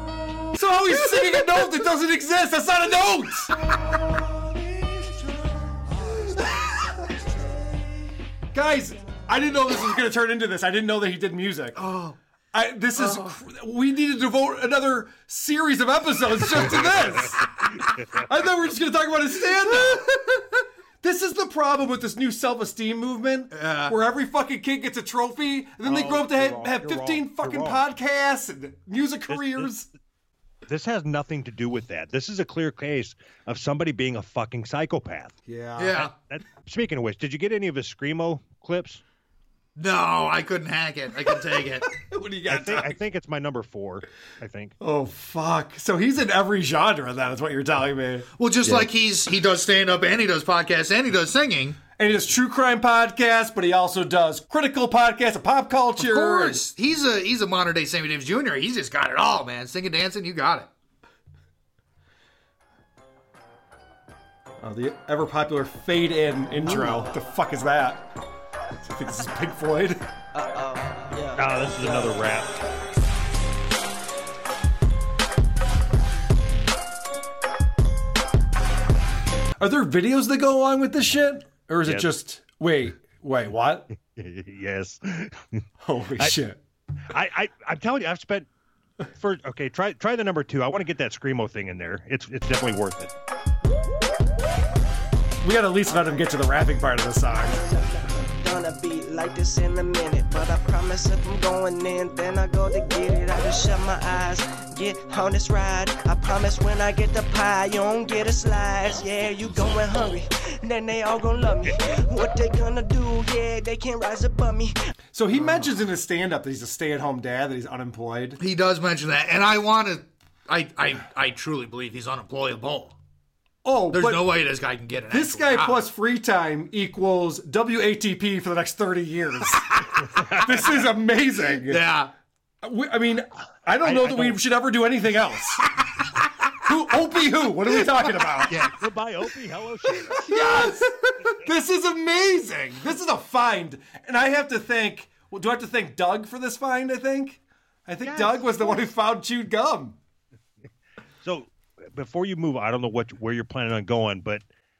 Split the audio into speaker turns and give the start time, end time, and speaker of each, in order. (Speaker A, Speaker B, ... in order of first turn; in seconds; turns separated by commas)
Speaker A: 0.5-3.5, Speaker A: 8.5-11.8, Speaker B: 11.8-12.1, Speaker A: 12.5-17.4, Speaker B: 13.0-13.3, Speaker C: 16.6-17.2, Speaker A: 18.3-20.4, Speaker A: 21.0-29.9, Speaker B: 23.5-23.9, Speaker C: 25.8-27.8, Speaker C: 29.3-29.7, Speaker C: 30.7-35.4, Speaker A: 35.5-36.0, Speaker B: 35.8-36.1, Speaker C: 36.0-39.0, Speaker B: 39.8-41.9, Speaker A: 42.0-42.9, Speaker C: 42.5-44.7, Speaker A: 44.8-48.8, Speaker B: 48.4-51.8, Speaker A: 51.9-56.6, Speaker B: 56.0-60.7, Speaker A: 64.6-68.0, Speaker A: 68.8-70.0, Speaker D: 70.3-72.3, Speaker C: 71.3-72.5, Speaker A: 79.6-83.9, Speaker C: 81.8-82.1, Speaker C: 84.2-85.4, Speaker A: 85.8-86.6, Speaker C: 87.1-88.5, Speaker C: 89.2-93.1, Speaker A: 95.4-97.7, Speaker D: 95.9-96.2, Speaker D: 97.6-114.7, Speaker A: 115.1-118.4, Speaker B: 118.4-122.9, Speaker A: 123.6-124.3, Speaker B: 123.9-125.8, Speaker A: 125.1-129.6, Speaker A: 130.3-131.8, Speaker B: 131.6-132.1, Speaker A: 132.6-135.6, Speaker C: 133.8-134.4, Speaker A: 136.6-138.5, Speaker B: 138.5-138.7, Speaker C: 138.7-140.2, Speaker A: 140.2-150.0, Speaker B: 140.3-140.7, Speaker C: 148.0-148.8, Speaker C: 151.2-154.4